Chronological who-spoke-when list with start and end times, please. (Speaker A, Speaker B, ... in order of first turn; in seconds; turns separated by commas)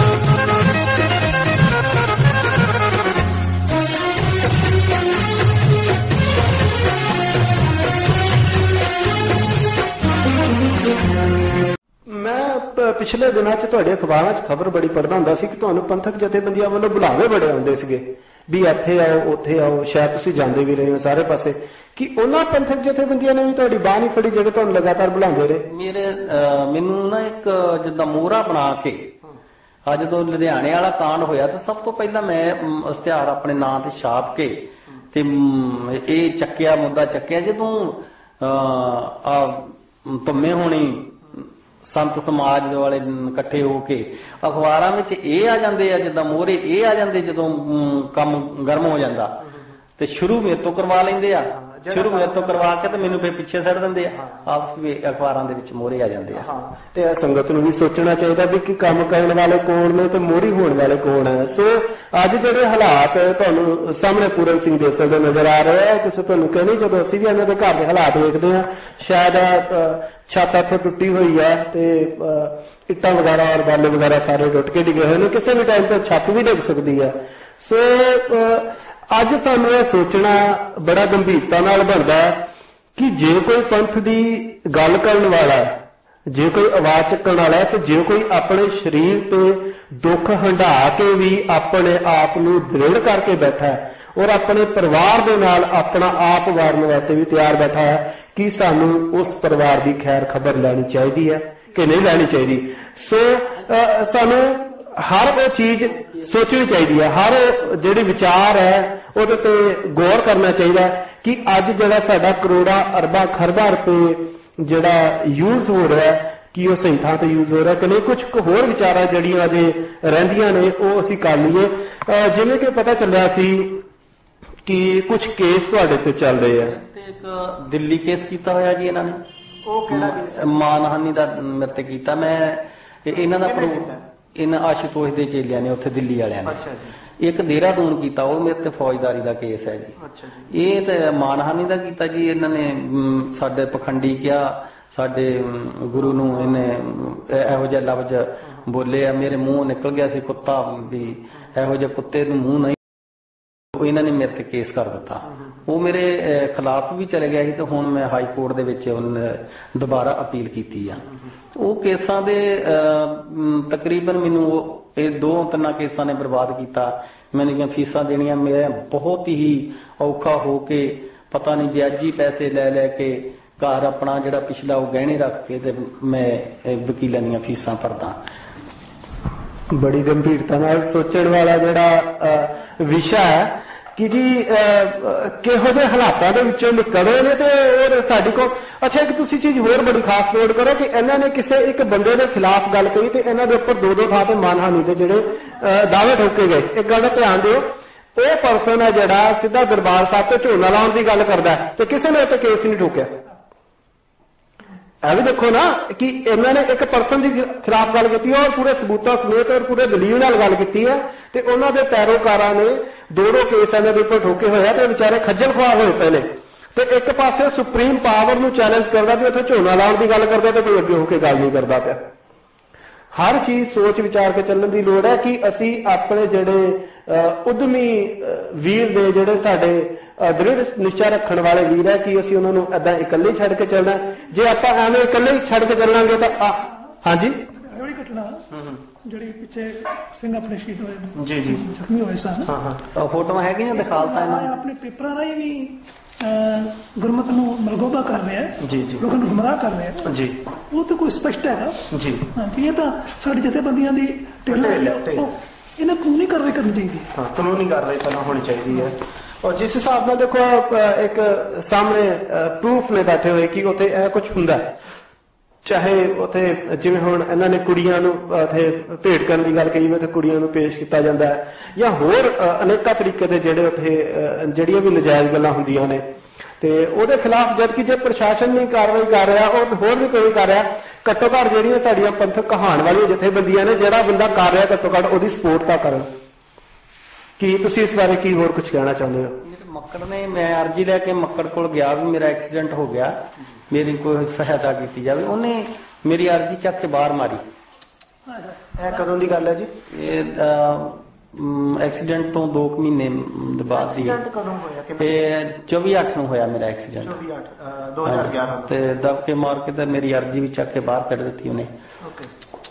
Speaker A: 12.1-25.6, Speaker B: 25.6-29.1, Speaker B: 29.9-34.6, Speaker B: 35.1-49.5, Speaker B: 50.0-56.5, Speaker A: 51.6-52.7, Speaker A: 56.4-82.4, Speaker A: 83.0-85.7, Speaker A: 86.3-123.8, Speaker A: 124.6-126.7, Speaker B: 126.5-129.2, Speaker A: 129.6-130.5, Speaker B: 129.9-136.6, Speaker A: 133.2-134.0, Speaker A: 136.4-136.9, Speaker B: 137.2-139.9, Speaker A: 140.0-140.5, Speaker B: 140.5-152.8, Speaker B: 153.7-178.2, Speaker A: 179.7-197.6, Speaker A: 198.1-203.1, Speaker A: 205.0-222.0, Speaker A: 223.1-237.4, Speaker C: 237.5-238.4, Speaker A: 238.5-238.8, Speaker C: 239.0-242.5, Speaker A: 241.1-241.7, Speaker A: 242.4-242.8, Speaker B: 242.9-244.5, Speaker C: 243.7-250.1, Speaker A: 248.6-249.1, Speaker A: 250.0-250.4, Speaker C: 250.7-251.8, Speaker A: 251.9-252.3, Speaker C: 252.3-257.1, Speaker A: 254.5-255.3, Speaker A: 257.1-264.7, Speaker A: 265.6-276.0, Speaker A: 276.6-286.1, Speaker A: 287.4-289.4, Speaker B: 289.4-293.2, Speaker B: 293.7-297.4, Speaker C: 298.3-298.6, Speaker A: 298.8-299.7, Speaker B: 299.9-304.2, Speaker A: 303.7-305.2, Speaker B: 305.0-307.2, Speaker A: 307.0-308.7, Speaker B: 308.0-311.7, Speaker A: 312.0-312.3